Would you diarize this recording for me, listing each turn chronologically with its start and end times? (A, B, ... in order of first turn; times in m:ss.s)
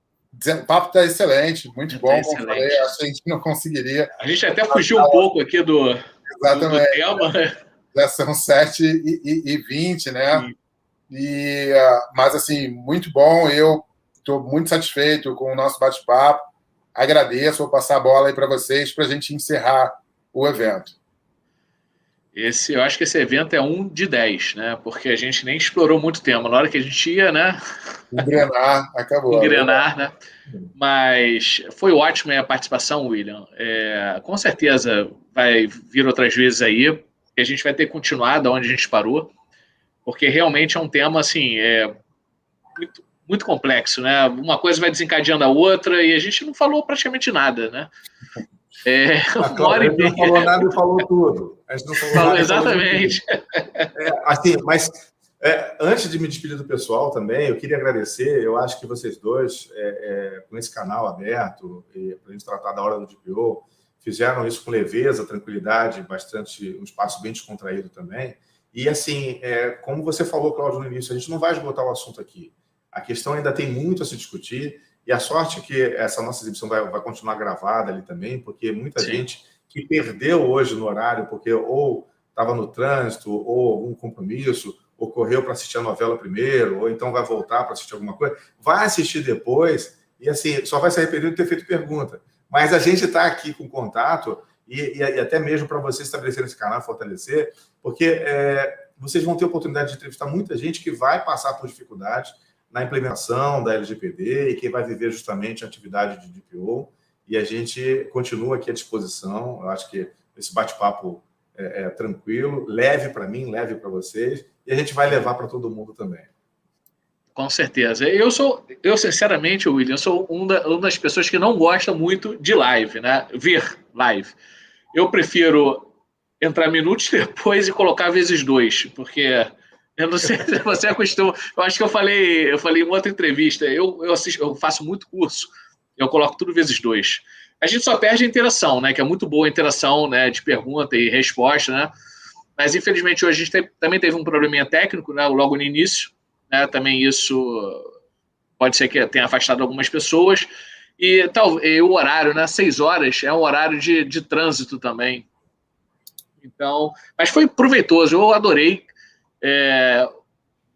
0:00.3-0:04.1 A
0:01.9-0:02.9 B
0:04.2-0:07.6 B
0:04.7-0:05.2 A
0:06.3-0:07.1 A
0:07.9-0:10.4 A
0:11.1-0:20.9 A
0:22.3-0:27.6 B
0:28.1-0:29.8 A
0:29.3-0:30.2 B
0:30.8-0:39.3 B
0:40.0-0:41.9 B
0:42.8-0:47.9 B
0:48.8-0:50.7 B
0:49.4-0:53.2 C
0:52.1-0:53.9 B
0:53.9-1:56.3 C
1:19.0-1:19.2 B
1:57.3-2:04.3 B
2:04.9-2:21.9 B
2:22.6-2:27.9 B
2:28.6-2:30.5 B
2:31.0-2:35.3 B
2:36.4-2:38.9 B
2:39.4-2:40.1 B